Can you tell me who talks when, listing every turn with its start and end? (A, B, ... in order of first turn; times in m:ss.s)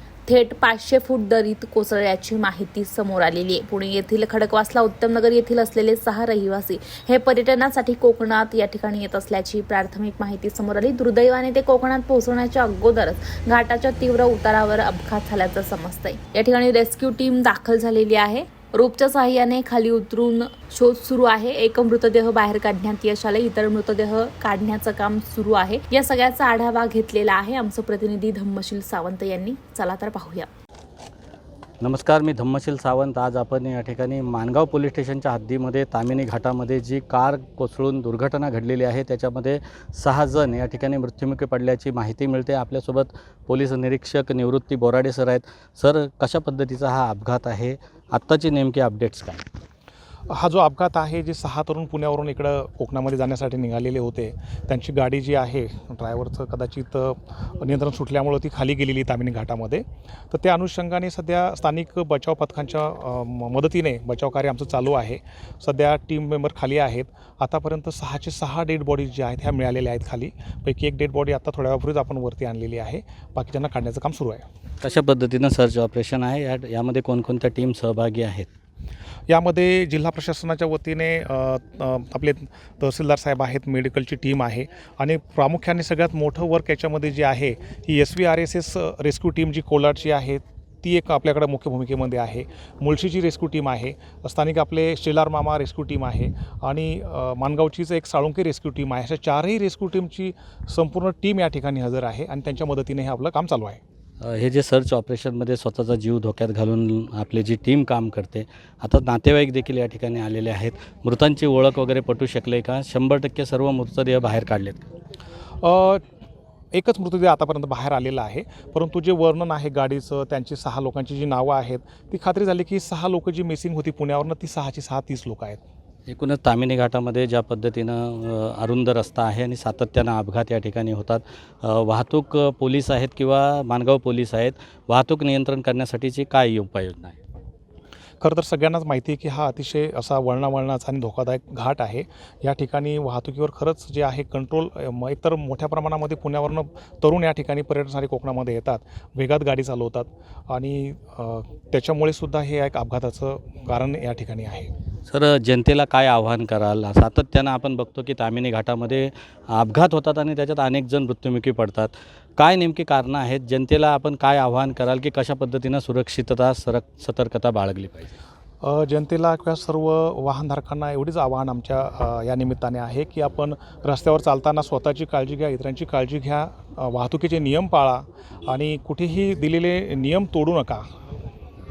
0:00.3-0:30.5 A
0:31.8-0:49.4 B
0:50.3-1:14.4 C
1:14.8-1:18.5 B
1:19.3-1:43.8 C
1:44.2-1:54.9 B
1:55.6-1:56.0 C
1:56.7-2:05.6 C
2:06.1-2:17.2 B
2:18.2-2:34.7 C
2:35.1-2:48.1 B
2:48.6-3:00.9 C